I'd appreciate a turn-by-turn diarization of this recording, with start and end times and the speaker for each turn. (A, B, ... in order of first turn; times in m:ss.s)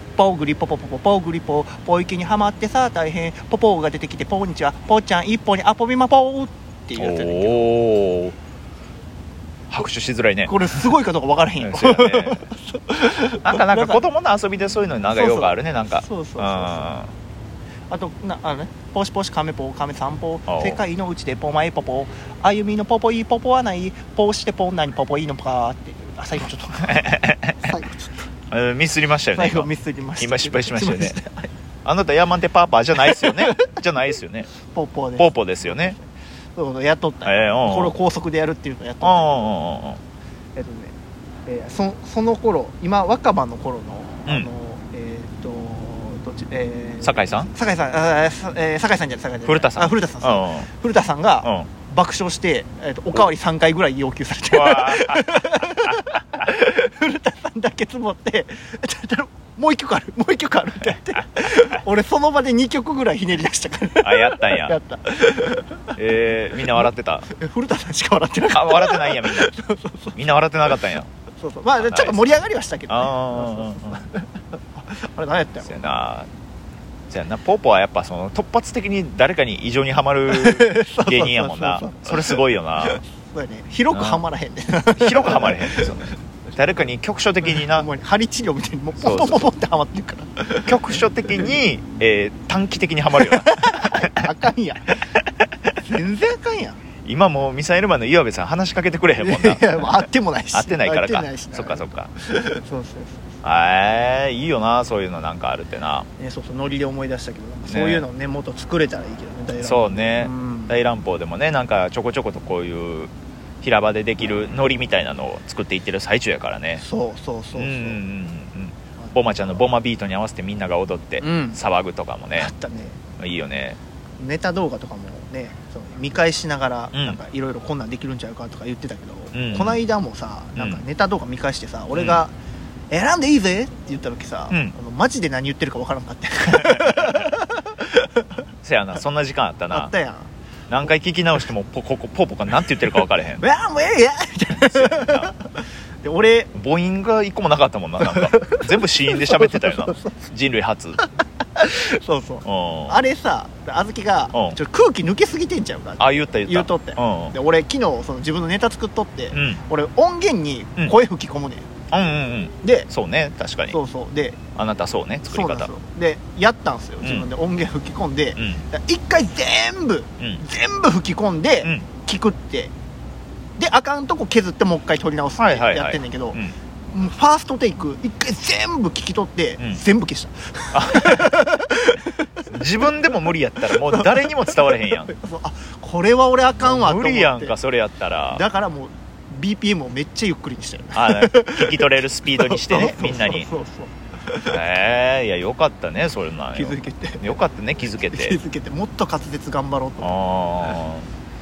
0:00.2-0:07.7 A
0:07.0-0:08.4 B
0:09.7-0:10.5 B
0:10.4-0:14.0 A
0:11.6-0:12.4 B
0:13.4-0:17.1 B
0:15.1-0:16.9 A
0:17.9-0:28.2 A
0:20.5-0:20.8 B
0:26.9-0:27.7 B
0:28.5-0:31.2 B
0:29.3-0:31.5 A
0:31.8-0:34.5 B
0:33.0-0:33.7 A
0:34.7-0:39.5 A
0:35.2-0:36.0 B
0:37.2-0:37.9 B
0:39.0-0:40.0 B
0:40.5-1:06.0 A
0:47.0-0:47.5 B
0:49.4-0:50.7 B
0:51.4-0:51.7 B
0:54.5-0:56.1 B
1:00.8-1:01.8 B
1:04.0-1:04.8 B
1:06.0-1:07.3 B
1:06.6-1:10.2 A
1:08.5-1:09.5 B
1:10.1-1:11.1 B
1:11.4-1:15.9 A
1:11.8-1:14.1 B
1:15.6-1:16.3 B
1:17.1-1:23.0 B
1:20.3-1:25.9 A
1:23.9-1:24.2 B
1:24.9-1:27.9 B
1:27.6-1:30.6 A
1:29.0-1:29.5 B
1:30.6-1:34.3 B
1:33.1-1:35.0 A
1:35.8-1:36.8 A
1:37.0-1:42.1 B
1:39.2-1:43.3 A
1:43.4-1:46.1 B
1:46.2-1:50.8 A
1:47.6-1:48.0 B
1:49.6-1:53.1 B
1:53.6-1:56.8 B
1:56.8-1:58.0 A
1:57.5-2:02.5 B
1:59.0-1:59.4 A
2:01.2-2:01.6 A
2:02.4-2:03.0 A
2:03.2-2:03.8 B
2:04.2-2:12.3 A
2:06.9-2:07.2 B
2:09.3-2:09.8 B
2:10.6-2:10.8 B
2:11.9-2:12.2 B
2:12.9-2:18.2 A
2:16.5-2:17.3 B
2:18.6-2:19.9 B
2:19.7-2:20.3 A
2:20.7-2:23.5 B
2:23.4-2:26.5 A
2:24.5-2:25.3 B
2:26.5-2:31.0 B
2:28.0-2:30.2 A
2:31.0-2:41.7 A
2:32.4-2:33.0 B
2:34.3-2:34.6 B
2:36.0-2:37.3 B
2:39.3-2:39.6 B
2:41.9-2:43.8 B
2:42.6-2:42.9 A
2:43.7-2:44.4 A
2:44.6-2:45.7 B
2:45.3-2:52.7 A
2:47.0-2:47.3 B
2:48.4-2:48.6 B
2:53.6-2:56.4 A
2:55.4-2:56.5 B
2:56.9-3:02.0 A
3:00.7-3:01.4 B
3:02.4-3:05.1 B
3:03.6-3:07.5 A
3:06.6-3:08.4 B
3:08.3-3:14.5 A
3:10.9-3:13.5 B
3:14.4-3:18.4 B
3:16.5-3:17.3 A
3:18.1-3:20.2 A
3:20.0-3:21.0 B